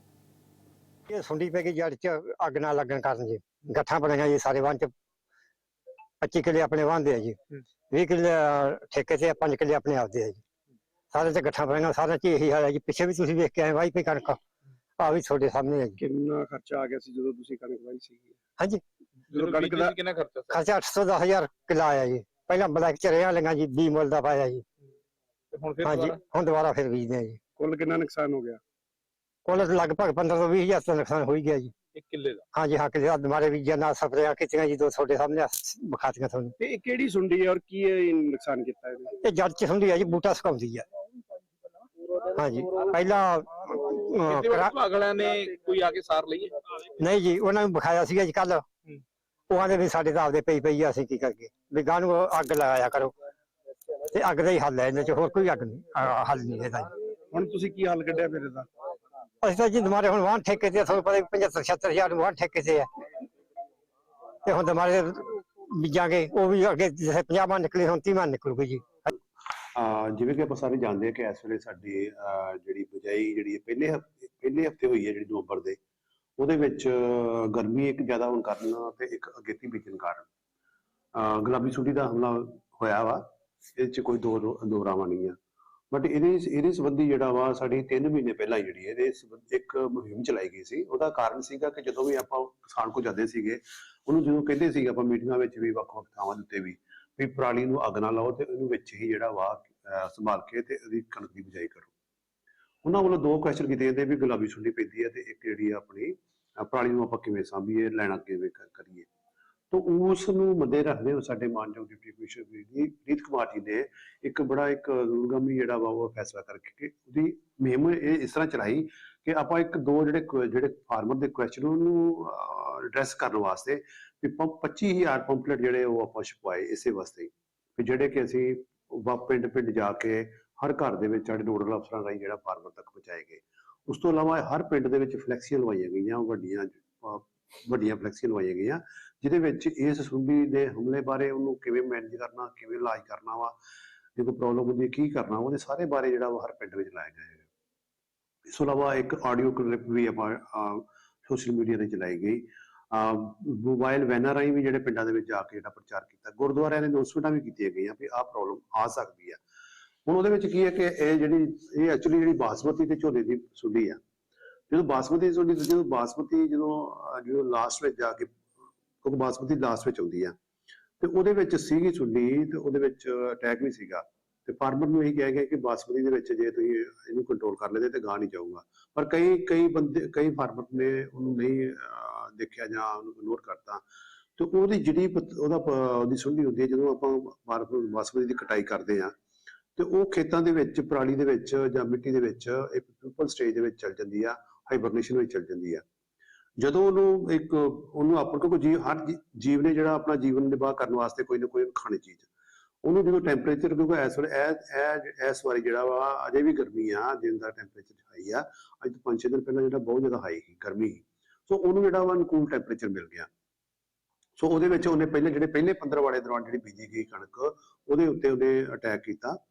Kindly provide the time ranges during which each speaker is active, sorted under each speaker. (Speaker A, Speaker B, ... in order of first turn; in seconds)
Speaker A: 1.1-4.9, 6.2-7.4, 7.9-10.4, 11.1-14.4, 15.0-16.0, 20.5-24.6, 25.8-27.4, 29.4-31.7, 32.5-36.5, 39.2-40.8, 42.4-44.7, 47.0-48.6, 49.5-53.1, 54.1-56.9, 59.4-62.9, 64.4-68.9
Speaker B: 16.0-18.3, 19.4-19.9, 27.6-28.6, 36.6-39.1, 57.3-58.7
Speaker C: 19.3-20.6, 25.5-26.2, 31.9-32.4, 44.2-46.7
Speaker D: 69.8-75.8, 76.4-80.3, 81.1-83.2, 83.8-85.4, 85.9-101.9, 102.8-109.1, 109.7-143.6, 144.2-147.4, 148.5-159.4, 160.1-164.0, 164.7-168.3, 169.0-170.3, 171.0-183.8, 184.4-189.1, 189.8-195.8, 196.6-202.3, 202.8-213.3, 214.4-219.4